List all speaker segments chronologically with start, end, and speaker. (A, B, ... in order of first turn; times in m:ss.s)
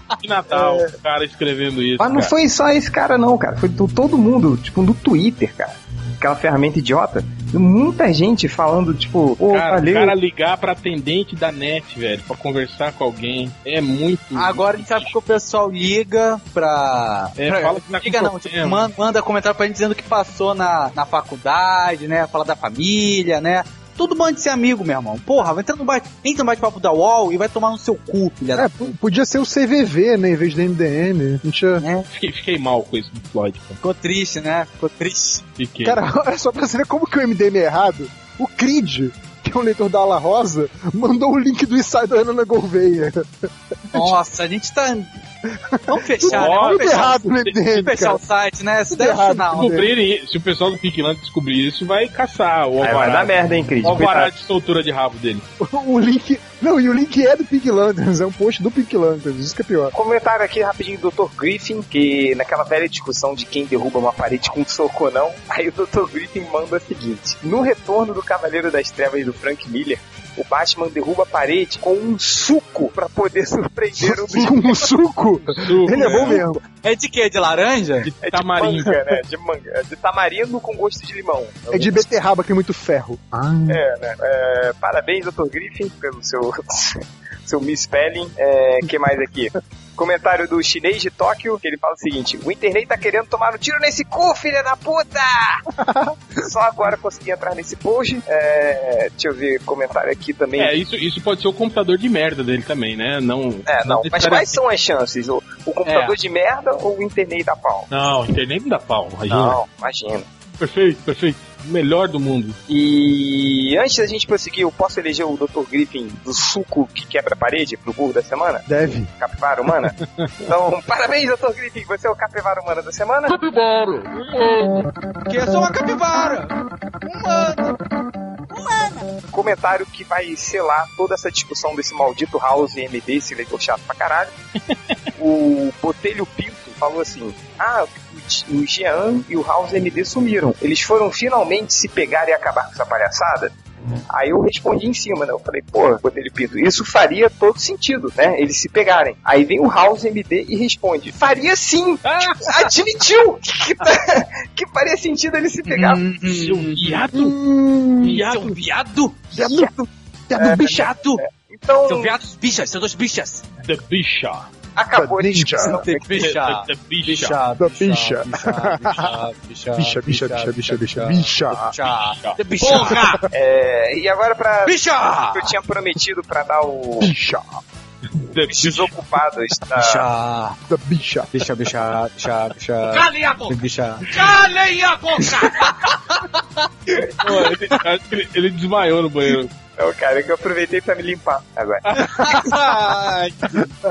0:00.2-0:02.3 A
0:02.0-0:10.2 B
0:09.5-0:15.1 A
0:14.3-0:28.9 C
0:17.4-0:18.8 A
0:28.6-0:31.8 D
0:31.8-0:32.1 C
0:32.1-0:33.8 A
0:33.8-0:35.4 C
0:35.6-0:36.0 A
0:35.8-0:44.1 D
0:43.9-0:45.1 C
0:45.6-0:48.2 D
0:45.9-0:49.7 C
0:46.3-0:47.5 A
0:48.9-0:49.9 D
0:49.5-0:55.4 A
0:52.8-0:54.3 B
0:55.6-0:59.9 D
0:59.9-1:14.9 B
1:14.0-1:16.6 D
1:15.5-1:16.4 A
1:15.9-1:16.4 B
1:16.0-1:18.1 C
1:18.0-1:19.0 A
1:18.2-1:22.0 B
1:21.7-1:23.8 D
1:23.7-1:35.6 B
1:35.8-1:36.1 D
1:36.4-1:40.7 B
1:40.6-1:44.6 A
1:43.7-1:47.9 B
1:45.8-1:46.2 C
1:47.9-1:49.6 A
1:49.3-1:50.2 B
1:50.6-1:52.6 A
1:52.7-1:58.6 B
1:58.7-1:59.1 D
1:59.2-2:03.4 B
2:05.3-2:06.5 C
2:07.0-2:07.8 C
2:09.3-2:14.3 B
2:15.2-2:23.5 B
2:24.1-2:36.0 B
2:32.0-2:32.6 A
2:35.7-2:36.8 C
2:36.2-2:37.4 A
2:37.1-2:38.2 D
2:38.0-2:38.6 A
2:38.1-2:39.3 C
2:39.3-2:40.9 D
2:39.4-2:39.7 B
2:40.4-2:42.2 B
2:40.6-2:41.2 C
2:41.9-2:43.4 C
2:43.6-2:44.5 A
2:44.8-2:46.0 B
2:45.0-2:45.8 D
2:45.6-2:53.0 C
2:46.2-2:47.4 A
2:47.6-2:49.1 D
2:49.8-2:51.6 D
2:51.8-2:52.4 A
2:52.6-2:53.2 E
2:53.3-2:57.1 B
2:54.6-2:55.5 C
2:57.0-2:57.6 D
2:58.2-2:58.9 A
2:58.5-3:00.0 B
2:59.7-3:00.6 C
3:00.7-3:01.3 D
3:01.3-3:04.1 C
3:02.9-3:05.7 E
3:05.2-3:06.4 C
3:06.9-3:07.3 B
3:07.2-3:09.5 A
3:09.8-3:11.8 B
3:11.9-3:13.7 C